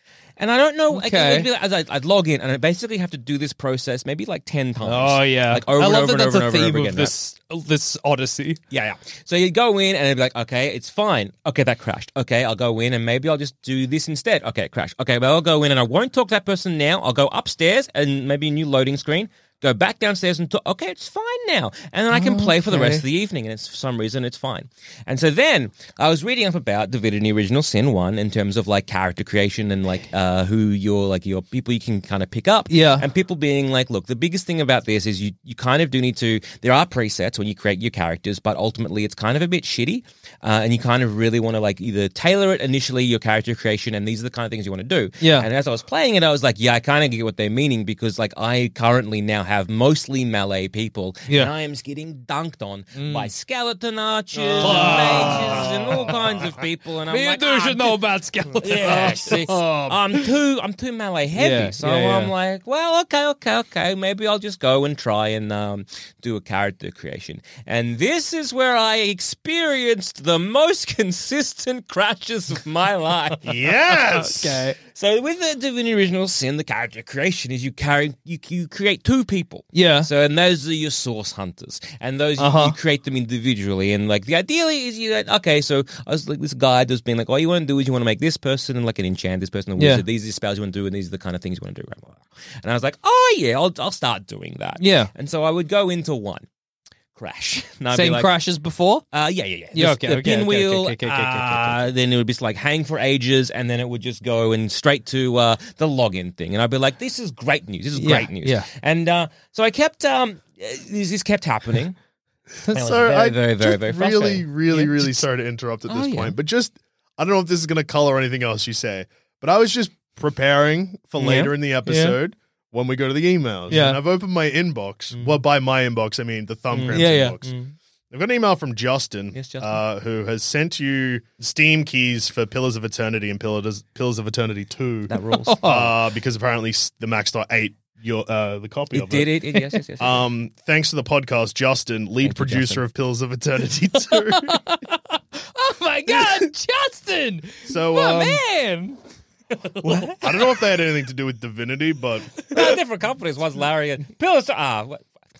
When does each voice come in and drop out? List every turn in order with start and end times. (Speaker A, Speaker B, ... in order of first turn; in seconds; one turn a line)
Speaker A: 0.4-7.1
Speaker B: 0.9-1.5
Speaker B: 4.8-8.6
Speaker A: 8.7-58.0
Speaker B: 22.1-23.0
Speaker B: 32.7-33.0
Speaker B: 45.2-45.5
Speaker B: 52.9-53.3
Speaker C: 54.3-56.6
Speaker B: 54.6-56.1
Speaker B: 57.1-59.4
Speaker A: 58.6-73.4
Speaker C: 58.7-60.0
Speaker B: 61.4-62.3
Speaker C: 73.4-74.6
Speaker B: 73.8-74.8
Speaker A: 74.9-96.5
Speaker B: 79.7-80.1
Speaker B: 82.4-82.7
Speaker B: 89.8-90.0
Speaker B: 94.8-95.1
Speaker A: 97.2-98.3
Speaker B: 97.9-99.0
Speaker A: 99.1-112.0
Speaker B: 99.7-101.9
Speaker B: 108.0-108.7
Speaker C: 112.7-127.5
Speaker A: 112.7-115.2
Speaker A: 115.9-116.3
Speaker B: 121.2-122.2
Speaker B: 123.7-124.0
Speaker A: 125.1-125.4
Speaker A: 126.7-127.7
Speaker B: 126.9-127.3
Speaker C: 128.1-139.3
Speaker A: 129.3-129.8
Speaker A: 135.1-135.7
Speaker B: 135.3-135.9
Speaker A: 138.9-140.2
Speaker C: 140.0-144.6
Speaker A: 142.2-142.8
Speaker B: 144.1-149.0
Speaker C: 147.7-148.4
Speaker B: 149.5-150.5
Speaker A: 149.8-150.2
Speaker C: 150.1-152.3
Speaker A: 152.5-155.1